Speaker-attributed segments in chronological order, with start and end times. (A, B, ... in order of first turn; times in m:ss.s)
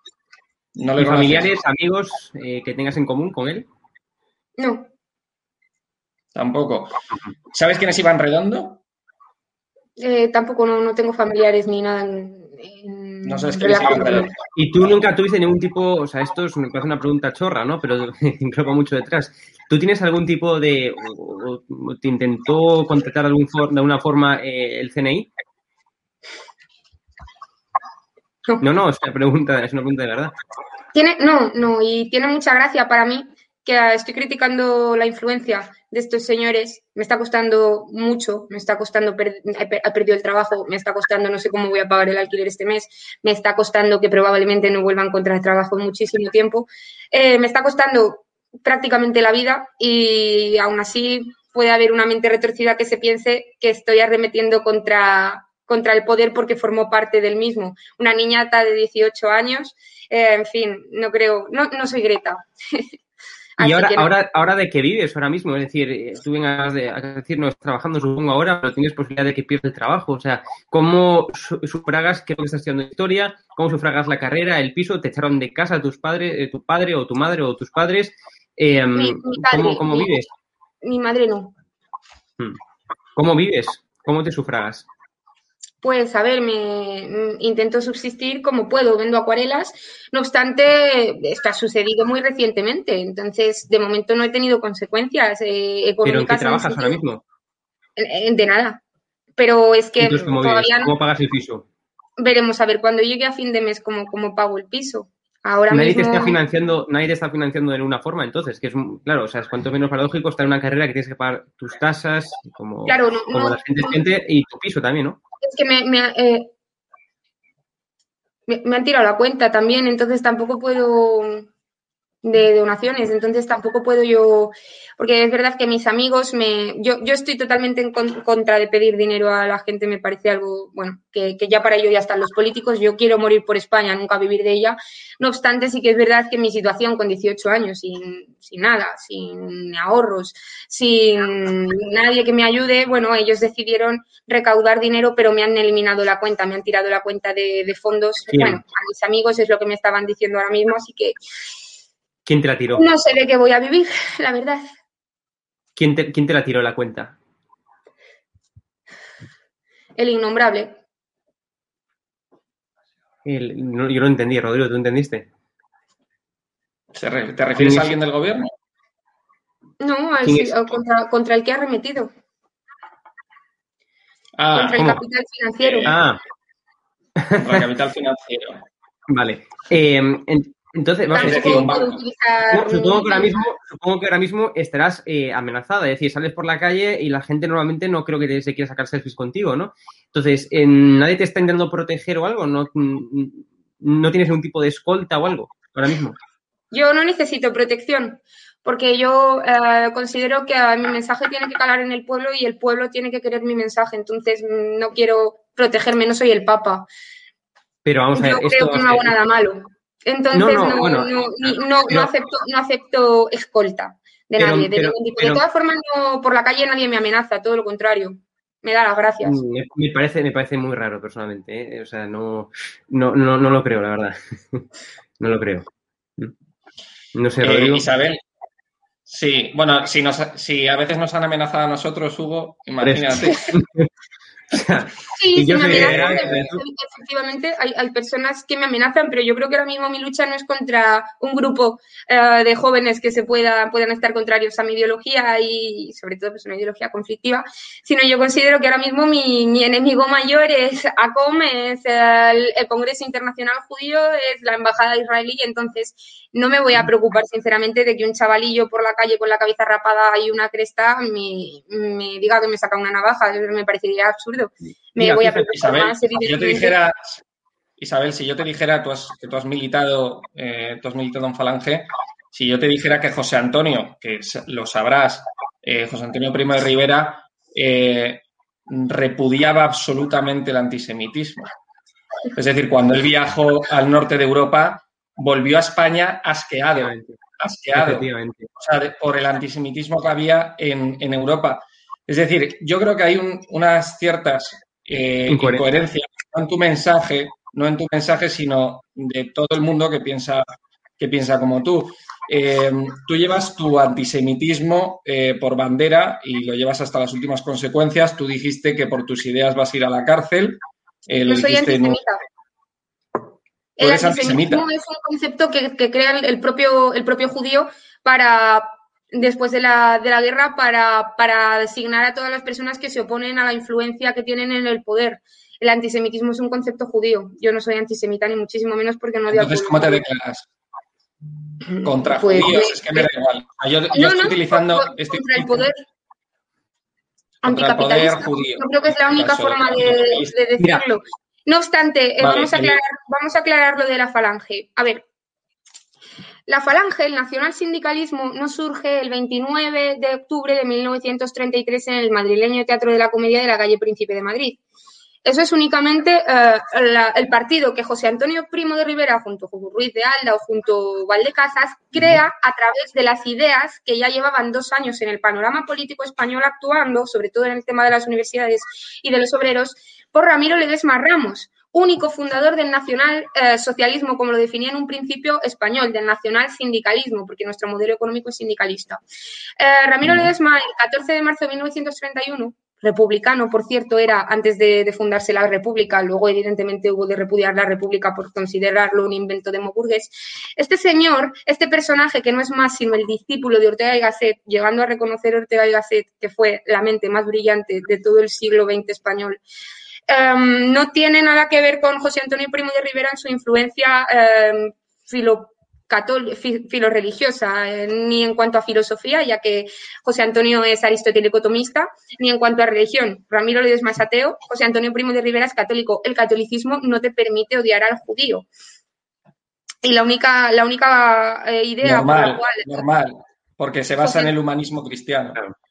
0:00.8-0:01.5 A
0:01.0-0:03.7 B
0:04.6-0:04.9 C
0:06.4-0:07.0 A
0:07.5-0:08.8 A
0:10.0-0:14.3 C
0:13.2-0:14.3 A
0:14.6-0:25.3 B
0:28.6-0:30.3 B
0:30.9-1:02.9 C
1:03.6-1:04.1 C
1:03.6-1:20.3 B
1:19.0-1:20.2 C
1:20.8-1:21.5 C
1:23.2-1:24.9 B
1:25.8-1:37.0 C
1:36.0-1:37.2 B
1:38.0-1:38.8 C
1:39.4-1:40.9 C
1:40.0-1:41.7 B
1:42.2-1:46.4 C
1:45.7-1:55.2 B
1:52.9-1:54.0 C
1:55.4-1:56.5 C
1:58.5-2:01.5 C
2:02.2-2:31.2 C
2:28.3-2:28.6 B
2:32.2-2:32.8 B
2:32.7-2:34.6 C
2:35.8-2:37.2 B
2:40.0-2:40.8 C
2:43.2-2:45.3 B
2:46.9-2:48.5 A
2:47.6-2:48.0 B
2:49.8-2:52.1 C
2:50.2-2:50.6 B
2:54.4-2:54.9 A
2:54.5-2:55.9 C
2:54.8-2:55.0 B
2:55.6-2:56.0 A
2:55.9-2:56.2 B
2:57.2-2:57.6 B
2:57.4-2:58.6 A
2:59.1-3:01.7 B
3:01.1-3:03.4 C
3:01.2-3:02.0 A
3:02.5-3:16.2 B
3:16.7-3:26.9 C
3:27.8-3:29.1 B
3:28.2-3:39.4 C
3:30.3-3:32.1 B
3:34.4-3:35.4 B
3:39.2-3:44.7 B
3:45.2-3:45.7 B
3:47.2-3:47.8 B
3:47.4-3:48.2 A
3:49.1-3:53.5 A
3:52.8-3:53.9 B
3:54.5-3:56.6 B
3:55.1-4:26.8 C
3:55.6-3:56.5 A
4:25.0-4:25.5 B
4:25.5-4:27.2 A
4:27.8-4:41.5 A
4:42.4-5:00.5 A
4:46.8-4:47.2 B
4:47.8-4:48.5 B
4:55.3-4:55.7 B
5:01.0-5:12.0 A
5:11.3-5:12.2 C
5:13.8-5:30.0 C
5:13.8-5:14.6 A
5:29.3-5:30.5 A
5:31.7-5:33.1 C
5:31.8-5:35.7 A
5:33.9-5:35.8 C
5:37.4-5:45.0 C
5:37.4-5:40.4 A
5:42.2-5:42.8 A
5:46.5-5:54.6 C
5:55.2-6:19.0 C
6:19.6-6:39.4 C
6:40.1-6:58.5 C
6:59.8-7:02.8 C
7:01.8-7:05.4 A
7:04.0-7:04.3 C